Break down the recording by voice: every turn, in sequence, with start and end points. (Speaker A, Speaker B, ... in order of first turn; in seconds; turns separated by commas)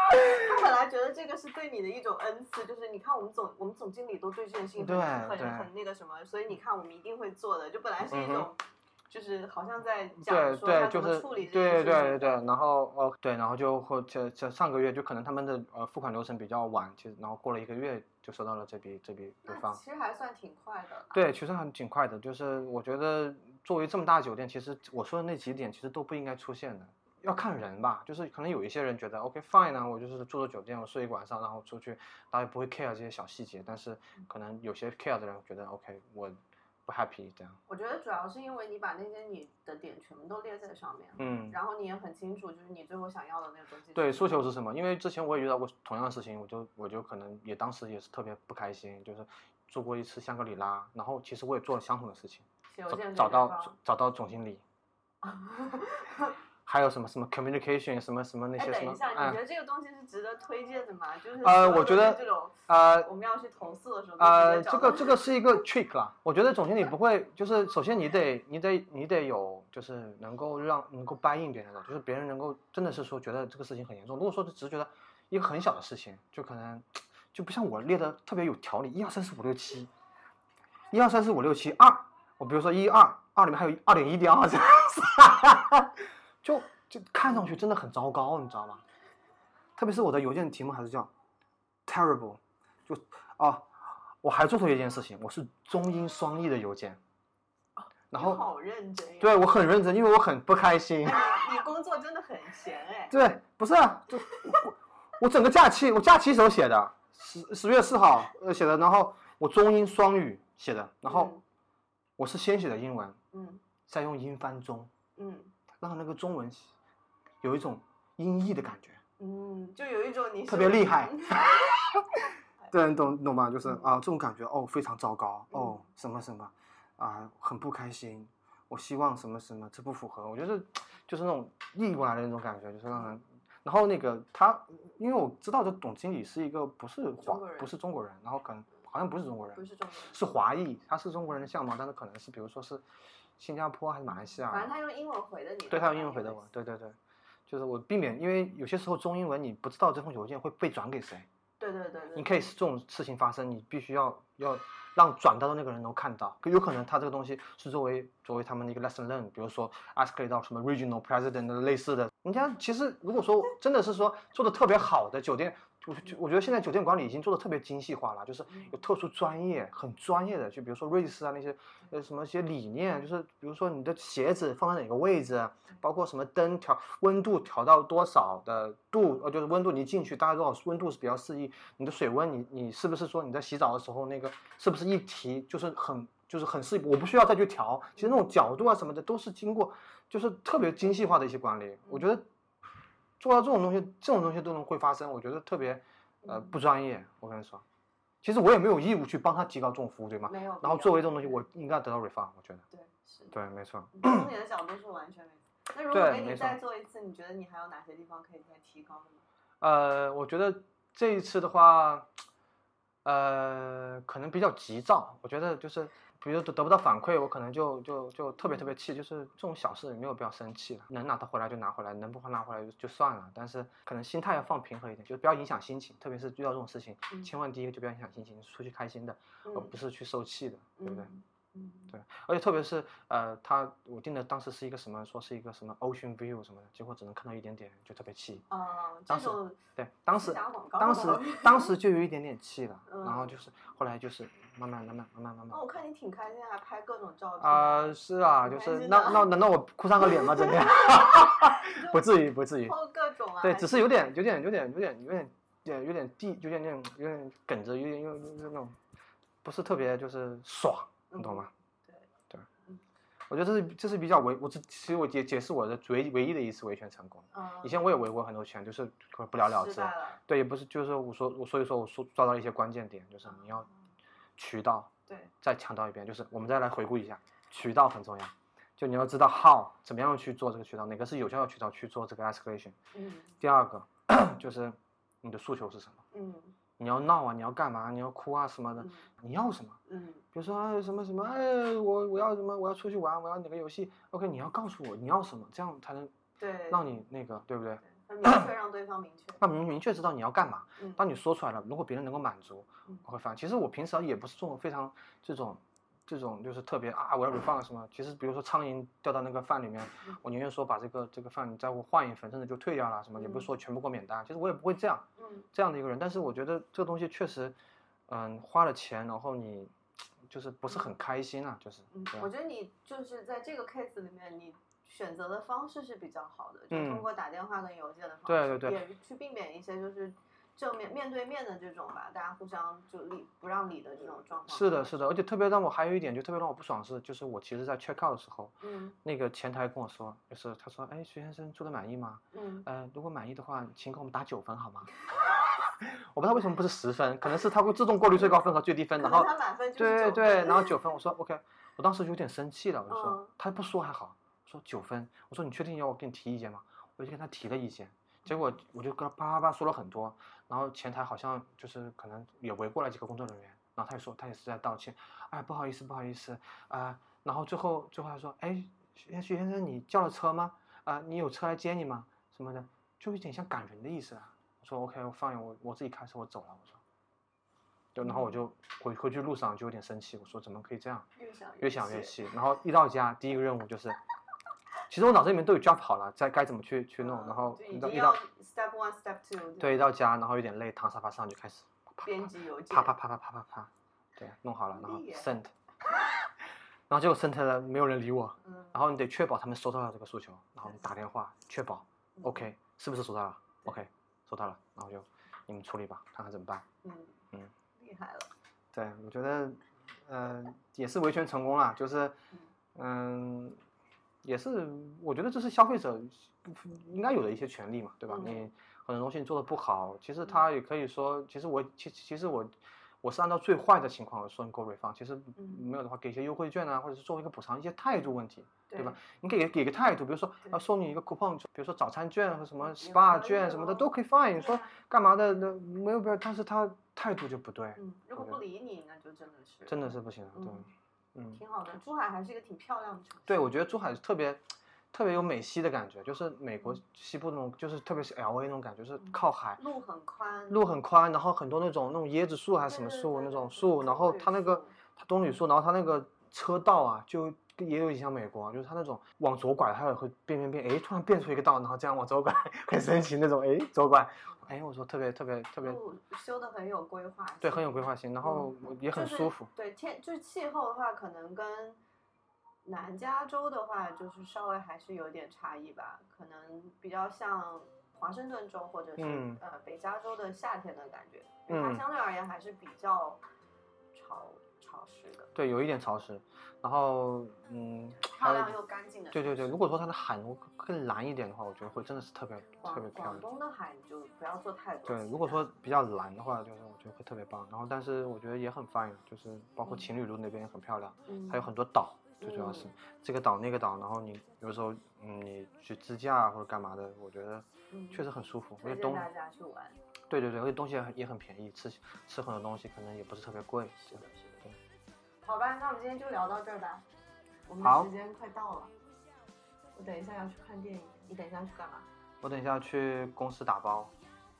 Speaker A: 0.3-12.4, Speaker B: 4.8-5.7, Speaker B: 8.1-8.5, Speaker B: 10.2-19.8, Speaker A: 19.5-21.3, Speaker B: 21.1-37.6, Speaker A: 37.7-44.4, Speaker B: 41.2-41.6, Speaker B: 43.9-54.6, Speaker A: 52.7-53.7, Speaker A: 55.2-56.3, Speaker B: 56.6-59.4, Speaker A: 58.6-65.2, Speaker B: 61.4-63.1, Speaker B: 64.2-79.9, Speaker B: 80.9-88.8, Speaker B: 89.8-91.1, Speaker B: 91.8-97.0, Speaker A: 97.8-99.5, Speaker B: 98.1-98.5, Speaker B: 99.2-101.3, Speaker A: 101.0-103.2, Speaker B: 103.1-111.3, Speaker A: 111.0-111.4, Speaker B: 112.2-113.2, Speaker A: 113.3-113.6, Speaker B: 113.9-114.9, Speaker A: 115.2-115.5, Speaker B: 115.8-116.7, Speaker B: 117.4-119.0, Speaker A: 119.2-121.6, Speaker B: 120.5-142.8, Speaker A: 125.5-125.8, Speaker A: 137.2-137.7, Speaker A: 139.5-140.2, Speaker B: 143.4-144.7, Speaker A: 144.5-146.5, Speaker B: 145.7-147.0, Speaker B: 147.5-151.3, Speaker A: 151.6-152.3, Speaker B: 152.1-192.3, Speaker B: 193.2-197.6, Speaker A: 196.2-196.5, Speaker B: 198.2-202.6, Speaker A: 200.2-201.4, Speaker A: 202.7-203.3, Speaker B: 203.3-204.3, Speaker A: 203.9-209.2, Speaker B: 205.9-206.6, Speaker B: 209.6-212.1, Speaker B: 213.0-231.1, Speaker A: 229.4-229.7, Speaker A: 230.8-231.9, Speaker B: 231.9-238.4, Speaker A: 238.5-241.7, Speaker B: 239.1-245.7, Speaker A: 242.8-243.4, Speaker A: 245.5-249.3, Speaker B: 247.4-252.8, Speaker A: 250.2-252.0, Speaker A: 252.6-254.0, Speaker B: 253.4-258.8, Speaker B: 259.4-261.5, Speaker A: 261.1-262.1, Speaker B: 263.3-273.7, Speaker A: 267.3-267.9, Speaker A: 269.4-270.2, Speaker A: 273.3-273.7, Speaker B: 274.4-274.9, Speaker A: 275.1-275.3, Speaker B: 275.4-282.7, Speaker A: 282.9-283.3, Speaker B: 283.4-286.0, Speaker A: 286.1-286.6, Speaker B: 286.8-289.8, Speaker A: 288.8-289.1, Speaker A: 289.9-290.2, Speaker B: 290.3-296.1, Speaker A: 296.4-296.8, Speaker B: 296.7-298.5, Speaker A: 297.8-299.4, Speaker B: 299.4-317.6, Speaker A: 313.2-313.5, Speaker A: 315.2-315.5, Speaker B: 318.1-319.7, Speaker B: 320.3-322.3, Speaker A: 321.9-335.2, Speaker B: 326.7-327.1, Speaker B: 328.3-328.8, Speaker B: 334.5-344.9, Speaker A: 338.6-339.0, Speaker A: 342.3-342.6, Speaker B: 345.6-376.8, Speaker A: 348.9-350.7, Speaker A: 352.9-353.3, Speaker B: 377.9-381.1, Speaker A: 378.0-378.3, Speaker A: 381.2-382.2, Speaker B: 381.6-384.0, Speaker B: 384.9-388.2, Speaker A: 387.0-389.8, Speaker B: 389.6-395.5, Speaker A: 392.0-392.9, Speaker A: 394.7-395.3, Speaker B: 396.9-406.6, Speaker A: 402.2-402.5, Speaker A: 406.8-407.2, Speaker A: 407.8-408.3, Speaker B: 408.7-412.2, Speaker B: 412.7-413.6, Speaker B: 414.2-438.4, Speaker A: 418.1-418.5, Speaker A: 428.7-428.9, Speaker A: 432.6-434.7, Speaker A: 437.8-440.7, Speaker B: 439.6-441.4, Speaker A: 441.3-443.5, Speaker B: 443.3-449.6, Speaker A: 449.1-450.7, Speaker B: 450.5-465.8, Speaker A: 452.7-454.7, Speaker A: 465.6-471.8, Speaker B: 467.4-469.5, Speaker A: 472.6-483.2, Speaker B: 479.0-479.4, Speaker B: 481.5-481.8, Speaker A: 483.9-485.3, Speaker B: 485.3-488.6, Speaker A: 488.0-489.6, Speaker B: 489.1-493.2, Speaker A: 492.6-495.5, Speaker B: 494.8-509.1, Speaker A: 501.1-501.5, Speaker A: 502.2-502.7, Speaker A: 507.7-508.0, Speaker A: 508.6-509.8, Speaker B: 510.1-514.5, Speaker A: 513.8-514.4, Speaker A: 515.2-516.8, Speaker A: 517.5-518.7, Speaker B: 517.6-517.9, Speaker A: 519.7-521.9, Speaker B: 522.2-523.9